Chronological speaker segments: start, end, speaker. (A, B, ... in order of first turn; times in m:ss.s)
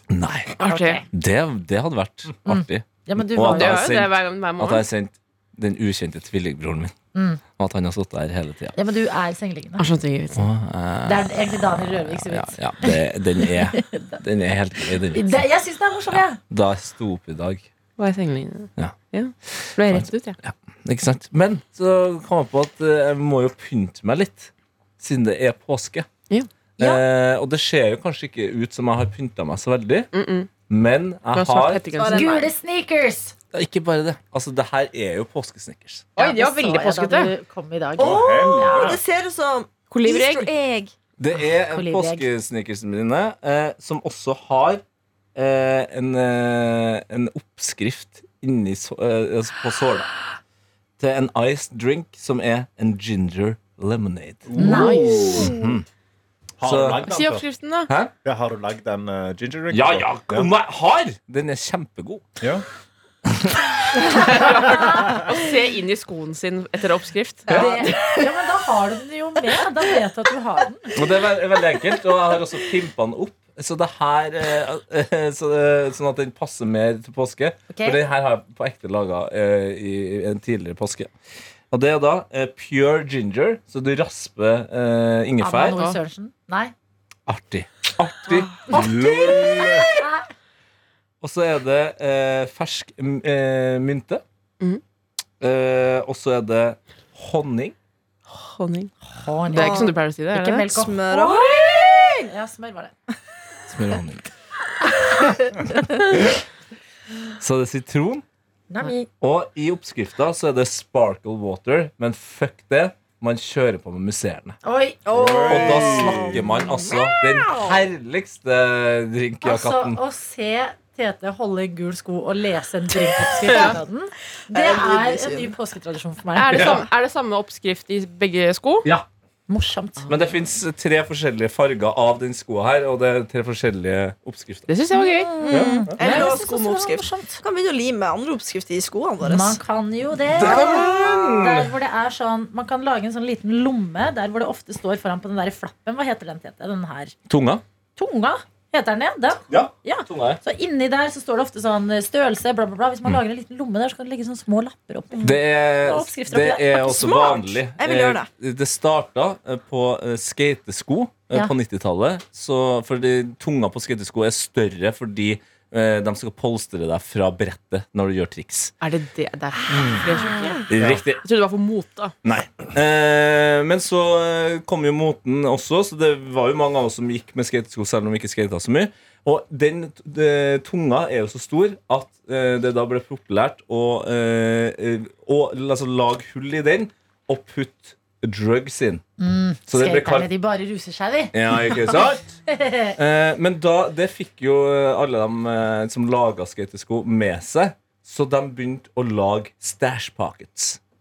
0:00.1-0:00.6 A
0:00.6-0:01.0 B
0:00.6-0:01.0 C
0:01.1-0:06.9 A
0:02.4-0:04.0 C
0:03.4-0:04.8 B
0:07.1-0:07.4 C
0:07.6-0:08.8 A
0:08.8-0:09.8 C
0:09.8-0:10.5 B
0:10.4-0:15.4 A
0:11.0-0:14.2 C
0:14.8-0:16.4 C
0:16.1-0:17.7 A
0:18.0-0:20.4 B
0:18.8-0:26.1 A
0:26.8-0:27.0 C
0:26.8-0:30.1 A
0:30.1-0:30.5 B
0:30.7-0:31.9 A
0:31.3-0:32.3 B
0:31.9-0:32.5 D
0:32.1-0:33.3 C
0:33.5-0:36.1 A
0:36.2-0:37.3 B
0:36.2-0:38.9 C
0:38.0-0:39.0 E
0:38.0-0:40.9 D
0:39.9-0:40.5 B
0:41.2-0:44.8 A
0:41.3-0:42.3 C
0:45.3-0:50.1 A
0:51.0-0:55.8 A
0:54.5-0:55.4 E
0:54.6-0:55.5 C
0:54.6-0:55.5 B
0:56.6-0:57.4 E
0:56.6-0:57.0 A
0:57.1-0:57.9 B
0:58.2-1:00.5 E
0:59.7-1:02.2 A
1:03.2-1:03.7 A
1:04.1-1:08.0 B
1:07.5-1:10.9 C
1:07.5-1:08.0 D
1:10.9-1:21.1 A
1:17.7-1:18.0 C
1:21.7-1:25.8 A
1:25.4-1:26.7 C
1:25.7-1:26.0 B
1:27.3-1:30.0 A
1:29.1-1:29.6 E
1:29.5-1:30.2 C
1:31.2-1:34.2 A
1:35.4-1:37.7 A
1:38.3-1:38.9 B
1:39.1-1:42.9 C
1:39.5-1:39.9 D
1:39.5-1:40.7 B
1:40.7-1:42.3 D
1:43.7-1:44.3 A
1:47.4-1:48.2 A
1:48.7-1:49.1 C
1:49.2-1:54.6 A
1:54.6-1:55.0 C
1:55.0-1:57.8 D
1:55.1-1:56.4 E
1:55.5-2:00.0 A
1:59.4-2:06.8 C
2:03.5-2:03.8 B
2:04.5-2:05.5 D
2:06.4-2:08.9 B
2:09.5-2:10.1 C
2:10.1-2:14.7 A
2:14.7-2:15.3 B
2:14.9-2:17.4 C
2:15.4-2:19.6 D
2:15.5-2:16.3 A
2:19.2-2:27.1 C
2:20.3-2:21.7 A
2:27.3-2:27.6 A
2:28.0-2:37.5 C
2:29.5-2:30.4 A
2:35.2-2:48.7 A
2:37.8-2:38.3 D
2:48.8-2:52.1 B
2:50.7-2:51.2 A
2:52.2-3:09.0 A
3:09.2-3:12.9 C
3:09.7-3:10.3 A
3:11.3-3:12.2 A
3:13.0-3:20.8 A